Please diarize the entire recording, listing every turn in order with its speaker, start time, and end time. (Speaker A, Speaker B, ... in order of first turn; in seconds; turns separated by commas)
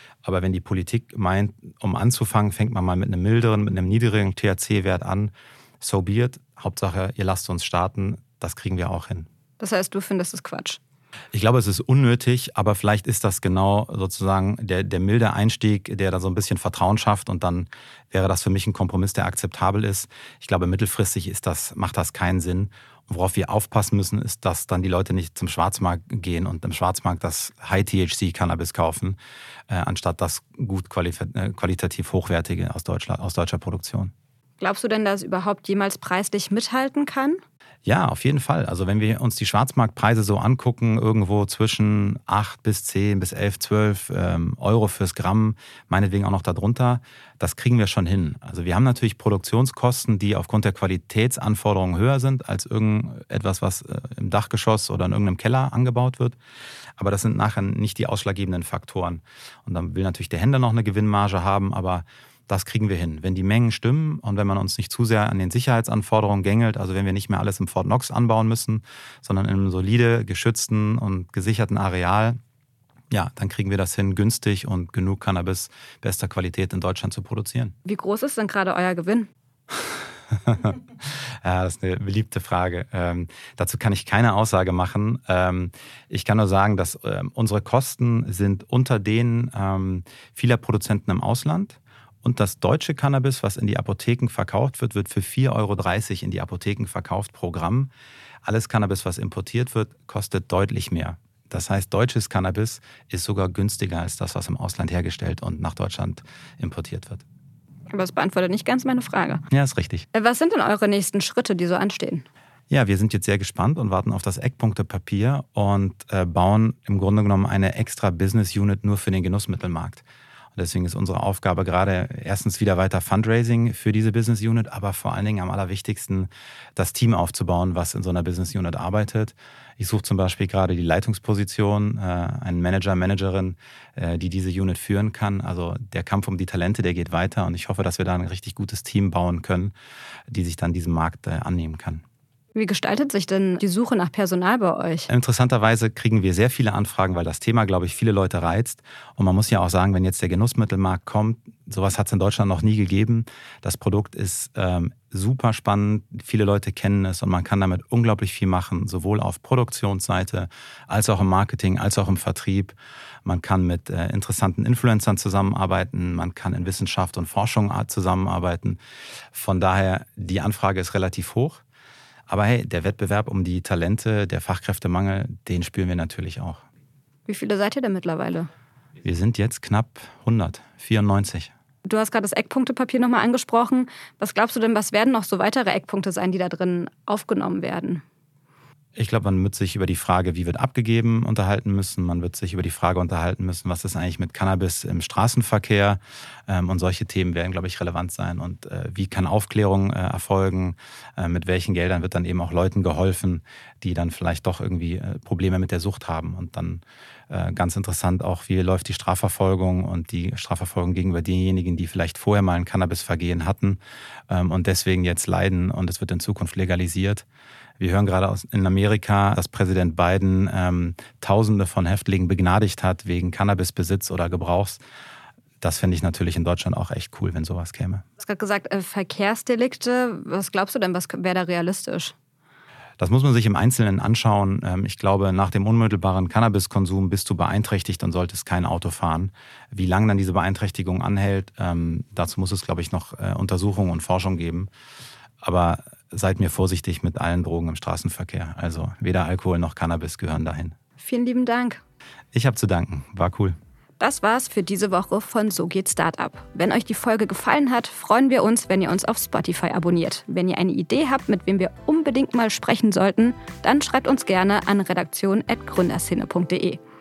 Speaker A: 0.2-9.3, Speaker B: 9.6-10.8, Speaker A: 11.3-29.2, Speaker A: 29.7-34.1, Speaker B: 34.6-37.4, Speaker A: 37.8-56.4, Speaker A: 57.0-72.4, Speaker A: 73.1-77.7, Speaker B: 77.9-79.3, Speaker A: 80.4-97.9, Speaker A: 98.4-107.2, Speaker B: 107.9-109.4, Speaker A: 109.5-110.1, Speaker B: 110.1-112.2, Speaker A: 112.7-120.0, Speaker A: 120.5-139.7, Speaker A: 140.3-142.0, Speaker B: 142.5-145.1, Speaker A: 145.1-168.8, Speaker A: 169.3-171.6, Speaker A: 172.3-176.6, Speaker B: 177.3-178.5, Speaker A: 179.0-181.5, Speaker B: 181.8-188.0, Speaker A: 188.9-217.2, Speaker A: 217.8-224.8, Speaker A: 225.6-228.0, Speaker B: 228.2-232.1, Speaker A: 233.0-244.7, Speaker A: 245.4-250.7, Speaker B: 251.0-251.8, Speaker A: 252.3-253.6, Speaker B: 254.0-266.8